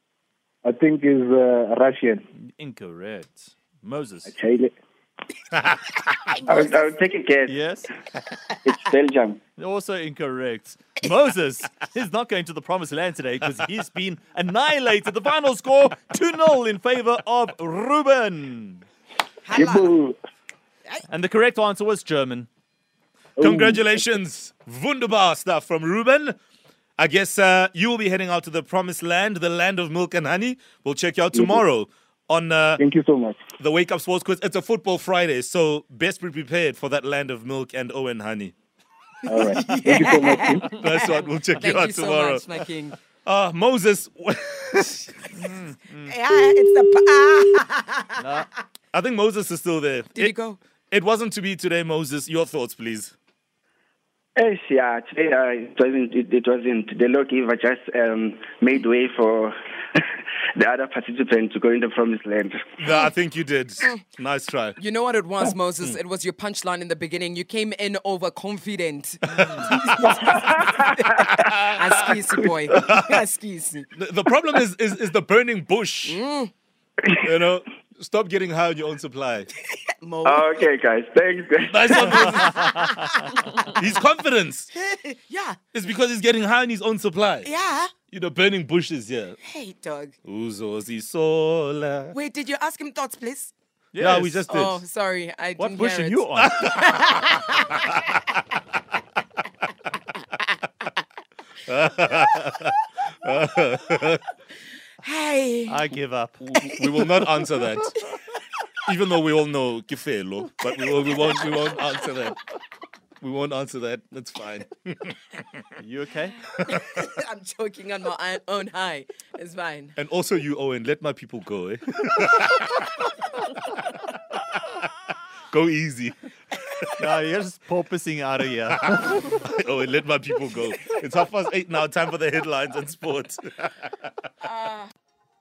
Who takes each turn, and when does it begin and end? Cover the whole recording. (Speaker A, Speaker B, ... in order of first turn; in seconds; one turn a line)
Speaker A: 0.6-2.2
Speaker B: 2.5-4.3
Speaker A: 4.3-4.8
Speaker C: 6.4-7.5
Speaker B: 7.5-7.9
Speaker C: 8.7-9.4
Speaker B: 9.6-18.9
Speaker D: 19.4-19.9
Speaker A: 19.5-20.2
Speaker B: 21.1-22.5
Speaker A: 23.4-24.1
Speaker E: 23.4-26.4
Speaker E: 27.0-32.8
Speaker A: 31.3-31.6
Speaker A: 32.8-33.4
Speaker E: 33.6-38.5
Speaker A: 39.3-40.7
Speaker D: 39.3-43.0
Speaker E: 40.7-42.5
Speaker E: 43.2-45.1
Speaker B: 45.3-46.2
Speaker D: 46.0-48.2
Speaker B: 48.2-48.5
Speaker E: 48.9-50.3
Speaker D: 50.1-50.6
Speaker E: 50.9-53.1
Speaker C: 54.4-62.6
Speaker E: 62.8-64.8
Speaker D: 64.8-73.9
Speaker E: 69.3-69.8
Speaker C: 70.1-71.3
Speaker E: 71.5-71.9
Speaker E: 72.7-73.2
Speaker E: 74.0-76.2
Speaker D: 76.0-76.5
Speaker E: 77.2-79.5
Speaker D: 79.7-80.6
Speaker C: 80.2-81.9
Speaker E: 81.6-82.7
Speaker D: 81.9-83.7
Speaker E: 83.7-84.7
Speaker D: 84.7-85.6
Speaker E: 85.7-87.5
Speaker D: 87.4-87.9
Speaker E: 88.1-89.4
Speaker D: 89.4-90.1
Speaker E: 90.2-92.2
Speaker D: 92.1-93.5
Speaker B: 93.9-94.5
Speaker E: 94.0-94.8
Speaker D: 94.5-98.3
Speaker B: 95.6-96.6
Speaker E: 101.7-104.2
Speaker D: 105.0-105.8
Speaker B: 105.7-106.4
Speaker E: 106.4-108.0
Speaker E: 108.9-112.4
Speaker E: 113.2-115.2
Speaker B: 115.8-116.4
Speaker D: 116.4-120.0
Speaker E: 120.0-123.0
Speaker E: 125.5-126.2
Speaker B: 127.0-129.2
Speaker E: 129.3-133.9
Speaker D: 134.4-134.9